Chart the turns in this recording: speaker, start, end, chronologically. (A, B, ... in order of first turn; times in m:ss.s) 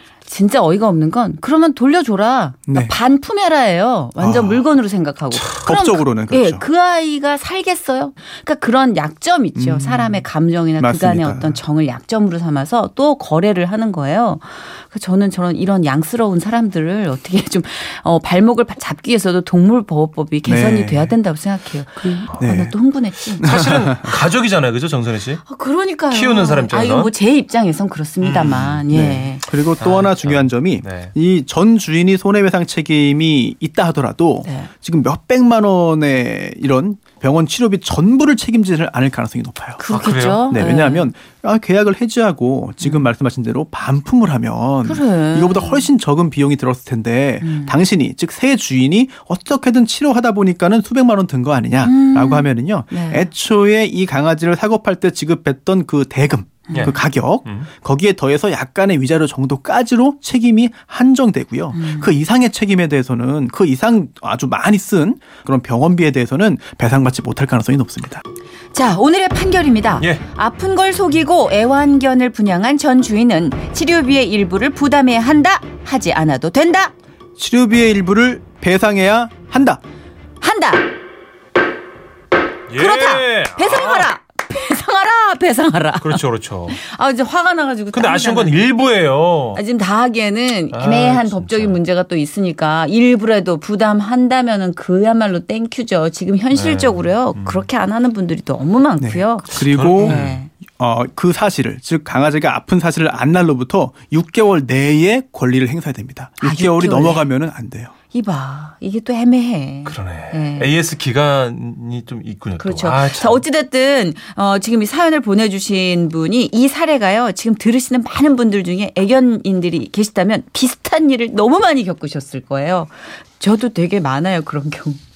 0:00.3-0:23.5 A
0:02.7-0:02.9 B
0:04.2-0:04.7 B
0:05.5-0:06.7 B
0:09.6-0:10.3 B
0:10.8-0:11.6 B
0:20.4-0:21.2 B
0:22.4-0:22.8 B
0:23.4-0:24.1 B
0:23.4-0:25.4 C
0:25.5-0:29.4 A
0:26.1-0:27.1 C
0:28.2-0:28.8 C
0:28.9-0:39.8 B
0:29.8-0:31.1 C
0:34.4-0:34.7 A
0:39.8-0:41.1 A
0:39.9-0:40.6 C
0:40.5-1:08.2 B
0:42.8-0:43.1 A
0:44.8-0:45.9 A
0:47.4-0:47.8 A
0:51.8-0:53.3 A
0:56.7-0:57.0 A
0:56.7-0:57.7 C
1:01.7-1:02.1 A
1:08.7-1:16.9 A
1:17.4-1:19.8 B
1:20.4-1:20.9 A
1:22.7-1:24.1 C
1:22.7-1:28.6 A
1:26.0-1:26.8 C
1:27.9-1:29.6 C
1:29.6-1:40.5 A
1:30.7-1:31.8 C
1:36.5-1:37.7 C
1:39.0-1:40.2 B
1:39.6-1:40.4 C
1:40.8-1:47.9 B
1:46.4-1:47.2 A
1:48.1-1:50.7 A
1:49.8-1:53.4 C
1:52.6-2:05.0 A